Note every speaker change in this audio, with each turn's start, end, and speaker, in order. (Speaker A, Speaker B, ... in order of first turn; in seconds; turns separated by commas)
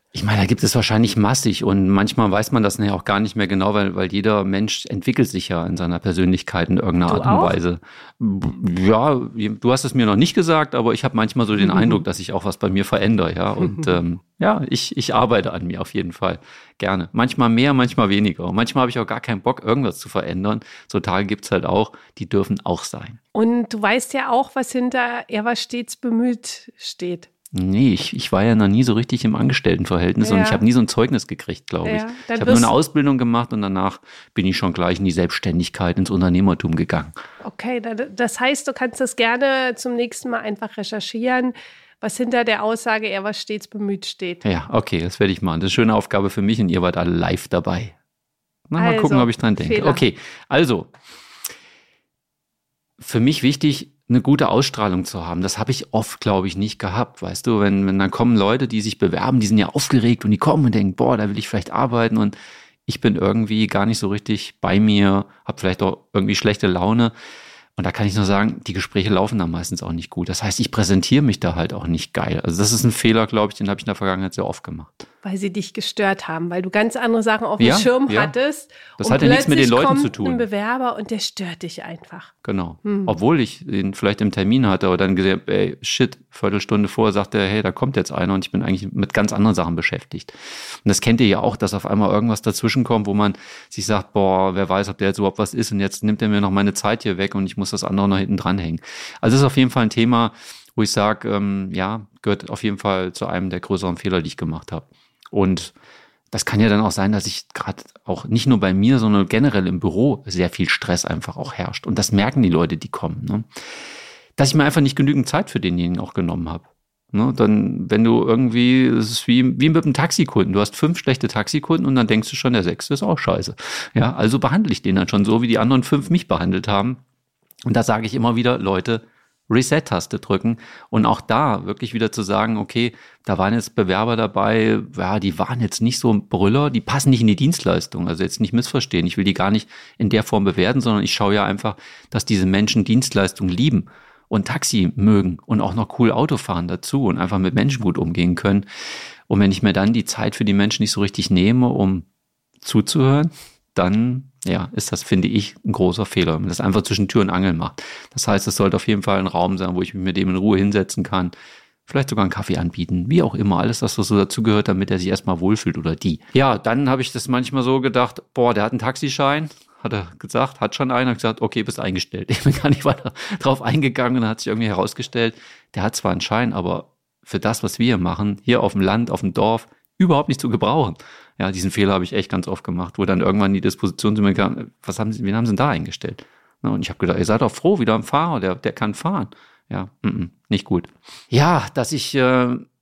Speaker A: 0.1-23.2, Speaker B: 7.1-7.6, Speaker B: 11.6-12.0, Speaker B: 23.3-27.3, Speaker A: 27.5-37.1, Speaker B: 30.2-30.6, Speaker B: 31.8-32.7, Speaker B: 37.4-44.4, Speaker A: 44.4-47.9, Speaker A: 48.7-50.9, Speaker B: 48.8-50.0, Speaker A: 53.0-62.3, Speaker A: 62.9-67.1, Speaker A: 67.8-75.0, Speaker B: 75.2-82.3, Speaker A: 77.6-78.3, Speaker A: 79.0-80.5, Speaker A: 82.4-105.7, Speaker B: 82.8-83.1, Speaker A: 106.3-113.5, Speaker A: 114.4-127.0, Speaker A: 127.7-148.7, Speaker A: 149.3-152.1, Speaker A: 152.6-161.3, Speaker A: 161.8-192.6